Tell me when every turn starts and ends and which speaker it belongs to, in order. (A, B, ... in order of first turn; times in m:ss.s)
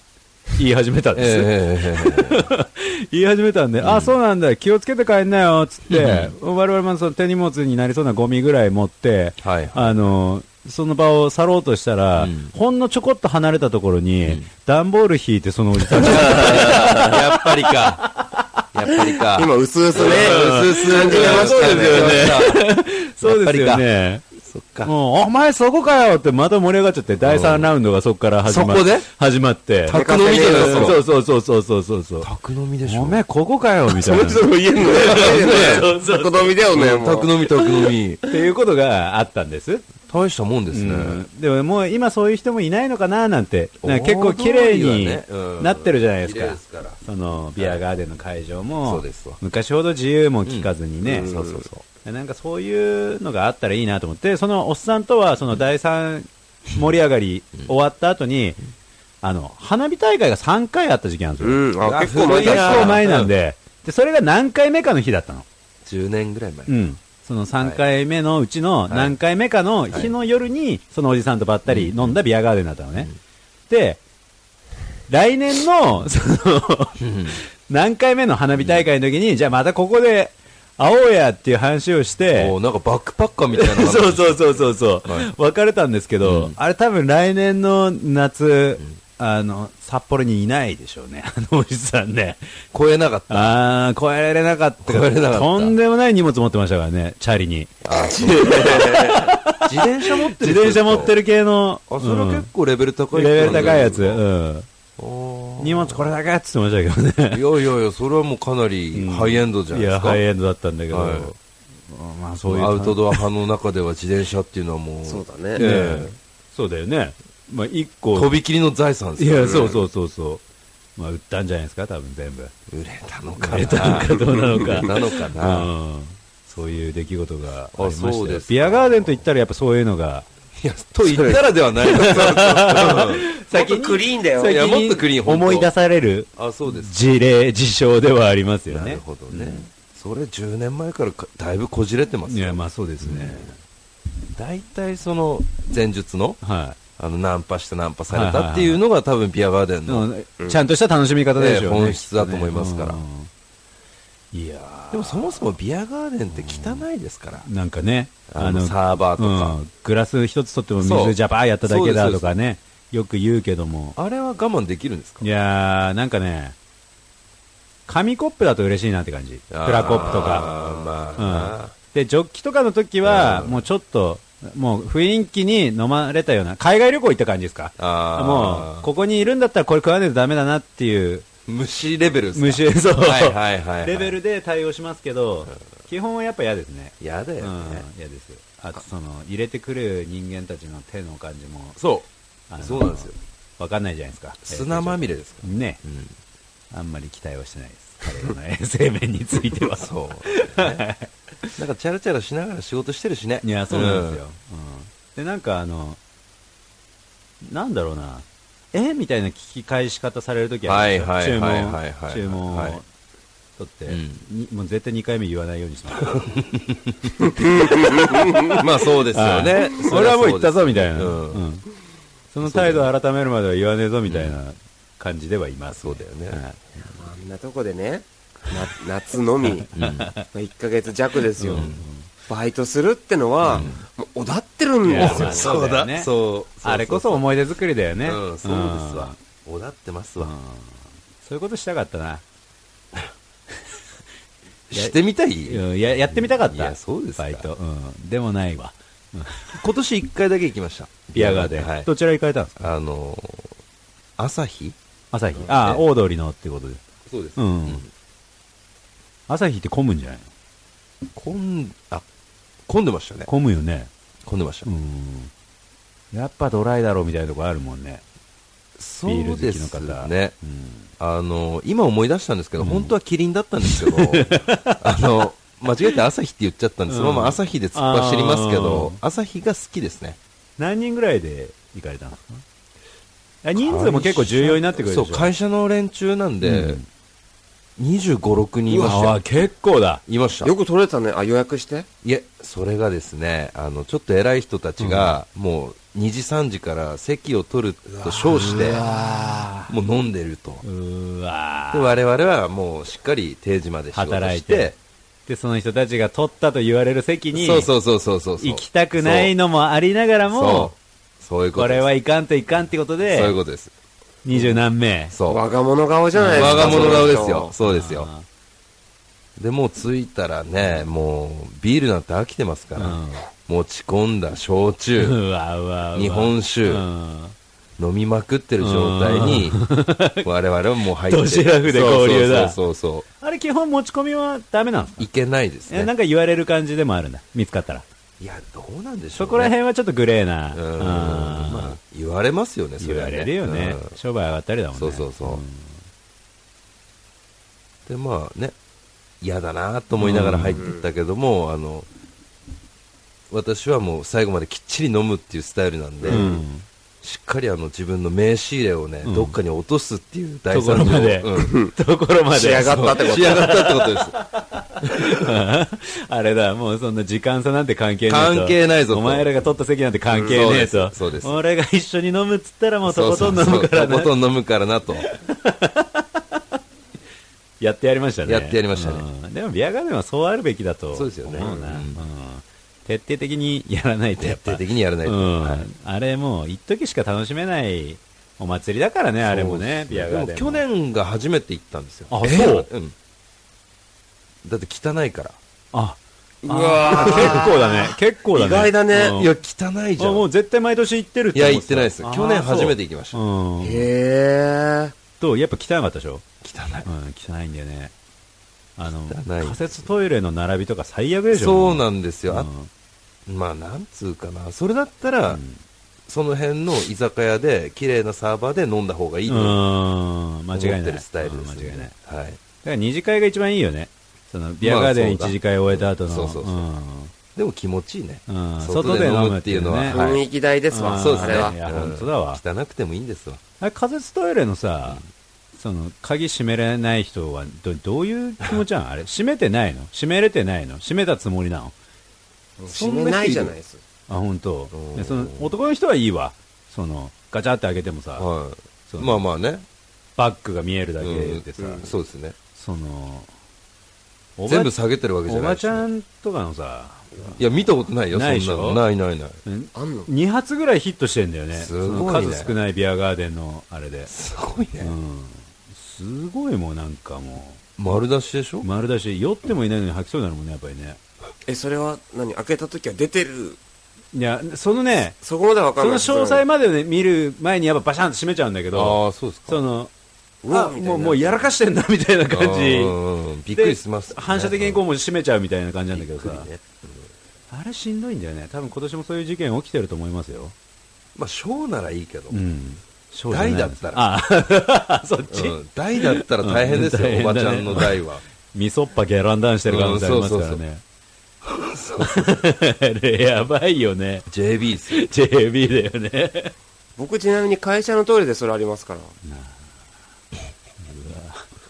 0:00.6-0:18.6 A
0:01.1-0:02.5 B
0:03.8-0:04.2 B
0:05.9-0:06.3 B
0:09.4-0:10.0 B
0:12.2-0:12.5 B
0:15.8-0:18.1 B
0:18.7-0:22.7 B
0:19.2-0:22.4 C
0:20.0-0:24.2 A
0:23.2-0:23.8 B
0:24.4-0:24.9 B
0:24.8-0:32.3 A
0:27.2-0:27.7 B
0:28.4-0:29.1 B
0:29.8-0:31.0 B
0:29.9-0:31.0 C
0:32.2-0:33.2 B
0:32.8-0:36.6 A
0:33.9-0:37.5 C
0:35.0-0:35.9 B
0:36.7-0:38.2 B
0:38.3-0:39.9 A
0:40.1-0:41.2 B
0:40.7-0:51.3 A
0:43.8-0:47.0 B
0:47.6-0:47.8 B
0:48.8-0:49.4 B
0:50.4-0:51.8 B
0:51.1-0:51.6 C
0:52.0-0:58.6 A
0:59.2-1:05.4 A
1:01.4-1:03.0 C
1:01.8-1:03.3 B
1:05.8-1:06.7 B
1:06.7-1:13.1 A
1:08.9-1:09.2 B
1:11.7-1:12.2 B
1:13.7-1:14.0 A
1:15.1-1:22.5 A
1:17.0-1:17.4 B
1:18.6-1:18.9 B
1:22.3-1:25.3 B
1:23.5-1:32.4 A
1:26.2-1:26.6 B
1:32.7-1:33.6 B
1:33.3-1:42.5 A
1:34.8-1:35.8 B
1:37.8-1:41.2 B
1:38.4-1:39.1 C
1:41.9-1:44.2 B
1:43.1-1:44.7 A
1:45.0-1:46.1 B
1:45.6-1:47.4 A
1:47.3-1:50.2 B
1:48.9-1:51.4 A
1:50.9-1:51.3 B
1:51.9-1:53.2 A
1:52.4-1:56.1 B
1:55.0-1:55.6 C
1:55.6-1:58.3 A
1:58.1-1:59.8 B
1:59.2-2:00.4 A
2:01.0-2:02.5 A
2:02.7-2:05.7 B
2:03.4-2:10.3 A
2:07.7-2:09.2 B
2:10.6-2:13.2 B
2:11.1-2:19.7 A
2:12.0-2:12.9 C
2:13.5-2:14.6 C
2:14.4-2:15.7 B
2:16.4-2:16.9 B
2:18.7-2:23.4 B
2:22.3-2:23.6 A
2:24.3-2:26.4 B
2:26.4-2:26.8 A
2:27.0-2:30.1 B
2:28.1-2:28.8 A
2:29.9-2:33.3 A
2:31.4-2:33.0 B
2:34.3-2:35.5 A
2:34.9-2:37.5 B
2:36.3-2:36.8 A
2:37.4-2:44.0 A
2:38.3-2:39.6 B
2:40.8-2:42.3 B
2:44.0-2:45.3 B
2:45.2-2:46.5 A
2:47.9-3:01.3 A
2:49.5-2:51.7 B
2:53.0-2:53.6 B
2:57.8-2:58.9 B
3:01.4-3:04.2 B
3:02.3-3:11.8 A
3:07.0-3:07.8 B
3:11.8-3:12.1 B
3:12.5-3:15.8 A
3:12.6-3:13.2 B
3:14.4-3:16.1 B
3:16.7-3:21.6 A
3:19.6-3:20.8 B
3:21.6-3:24.2 B
3:23.4-3:26.0 A
3:27.4-3:32.8 A
3:30.6-3:32.8 B
3:33.6-3:36.2 A
3:33.9-3:34.2 B
3:36.0-3:37.7 B
3:37.4-3:38.6 C
3:38.1-3:41.6 A
3:38.4-3:41.4 B
3:42.3-3:46.6 A
3:42.4-3:42.9 B
3:44.1-3:44.4 B
3:45.7-3:46.4 B
3:47.0-3:49.7 C
3:49.7-3:50.1 B
3:49.8-3:50.3 A
3:50.3-3:51.7 C
3:51.4-3:52.1 A
3:51.5-3:51.8 B
3:52.3-3:55.5 C
3:53.4-3:53.8 B
3:54.8-3:56.1 A
3:54.9-3:57.2 B
3:56.6-3:59.2 A
3:58.0-4:00.3 B
4:00.2-4:02.2 A
4:04.7-4:07.5 B
4:05.4-4:09.6 A
4:09.6-4:11.9 B
4:11.1-4:12.6 A
4:12.6-4:13.5 B
4:14.2-4:14.8 B
4:15.1-4:16.8 A
4:15.4-4:15.8 B
4:17.0-4:17.9 B
4:17.4-4:17.8 A
4:19.3-4:20.3 A
4:21.1-4:22.0 B
4:22.7-4:23.3 B
4:23.3-4:23.9 A
4:24.2-4:24.7 B
4:24.6-4:25.3 A
4:26.1-4:28.0 A
4:28.8-4:30.4 B
4:29.0-4:30.9 A
4:31.0-4:40.2 B
4:32.6-4:32.9 A
4:33.6-4:35.2 A
4:36.9-4:39.0 A
4:40.6-4:42.4 A
4:43.4-4:45.3 A
4:43.5-4:46.8 B
4:46.4-4:46.8 A
4:47.8-4:49.2 B
4:48.7-4:50.0 A
4:50.0-4:50.5 B
4:50.4-4:51.9 C
4:52.0-4:58.8 B
4:54.8-4:55.1 A
4:58.0-4:59.7 A
4:59.7-5:00.6 B
5:00.6-5:01.9 A
5:01.7-5:04.8 B
5:03.9-5:04.7 A
5:05.3-5:07.7 A
5:07.3-5:09.3 B
5:08.4-5:10.7 A
5:10.3-5:11.9 B
5:11.5-5:13.4 A
5:13.1-5:13.7 B
5:14.2-5:15.1 A
5:14.3-5:15.4 B
5:15.3-5:17.5 C
5:16.1-5:18.2 A
5:16.3-5:18.1 B
5:19.4-5:25.2 B
5:22.8-5:23.2 A
5:25.0-5:27.3 A
5:25.9-5:26.8 B
5:27.8-5:29.7 B
5:28.6-5:30.3 A
5:30.2-5:33.0 B
5:31.1-5:32.6 A
5:33.2-5:35.1 A
5:35.0-5:35.9 B
5:35.7-5:37.8 A
5:38.2-5:39.5 B
5:39.2-5:41.8 A
5:40.5-5:43.9 B
5:42.8-5:45.8 A
5:44.8-5:45.4 B
5:47.9-5:48.6 B
5:49.2-5:51.9 B
5:50.0-5:50.7 A
5:53.3-5:56.3 B
5:56.0-5:56.4 C
5:56.1-5:56.6 A
5:57.0-6:01.6 B
5:59.0-5:59.4 A
6:00.5-6:14.1 A
6:01.4-6:01.7 C
6:02.3-6:03.6 C
6:02.5-6:04.2 B
6:04.8-6:05.2 B
6:08.1-6:09.2 B
6:10.2-6:11.4 B
6:12.8-6:15.1 B
6:15.0-6:16.4 A
6:17.6-6:30.6 A
6:18.2-6:19.0 B
6:20.9-6:22.0 B
6:24.2-6:25.7 B
6:29.2-6:32.9 B
6:32.1-6:32.7 A
6:34.4-6:35.4 B
6:35.7-6:39.3 A
6:36.4-6:39.2 C
6:37.0-6:37.4 B
6:38.9-6:40.3 B
6:40.0-6:43.9 A
6:41.3-6:43.2 B
6:43.6-6:44.9 C
6:45.2-6:46.2 A
6:46.4-6:46.9 B
6:46.8-6:47.9 A
6:48.8-6:52.7 A
6:49.1-6:49.7 B
6:51.3-6:52.5 B
6:53.2-6:55.4 B
6:55.3-6:55.6 A
6:56.1-6:59.6 B
6:59.3-7:01.9 A
7:00.5-7:02.4 B
7:02.6-7:07.1 A
7:04.6-7:06.6 B
7:07.3-7:10.2 B
7:08.3-7:10.1 A
7:09.9-7:11.5 C
7:10.7-7:12.4 A
7:10.9-7:13.4 B
7:13.6-7:15.0 A
7:15.6-7:21.7 A
7:22.6-7:23.8 C
7:22.7-7:23.5 B
7:24.1-7:28.3 A
7:24.7-7:25.5 B
7:28.2-7:29.6 B
7:28.9-7:29.2 A
7:30.2-7:32.0 A
7:31.0-7:32.3 B
7:32.5-7:33.3 A
7:34.4-7:34.7 A
7:34.5-7:35.9 B
7:35.2-7:37.4 A
7:37.4-7:39.4 B
7:38.1-7:38.8 A
7:39.4-7:44.1 A
7:39.7-7:40.1 C
7:41.5-7:42.5 B
7:44.1-7:44.9 B
7:44.8-7:47.6 A
7:47.8-7:48.7 B
7:48.6-7:51.0 A
7:51.5-7:53.6 C
7:54.1-7:55.2 A
7:55.2-7:56.4 C
7:55.8-7:59.9 A
7:58.7-7:59.6 B
8:00.4-8:01.5 C
8:00.5-8:03.0 A
8:02.3-8:04.8 B
8:03.5-8:06.5 A
8:05.9-8:07.1 B
8:07.5-8:10.5 A
8:11.1-8:12.4 B
8:12.3-8:18.0 A
8:13.3-8:14.0 B
8:15.3-8:18.2 B
8:18.5-8:20.8 A
8:19.7-8:20.6 B
8:21.4-8:22.3 B
8:22.0-8:24.3 A
8:24.3-8:25.0 B
8:24.9-8:26.5 A
8:27.0-8:29.1 C
8:29.2-8:29.7 A
8:30.8-8:31.5 A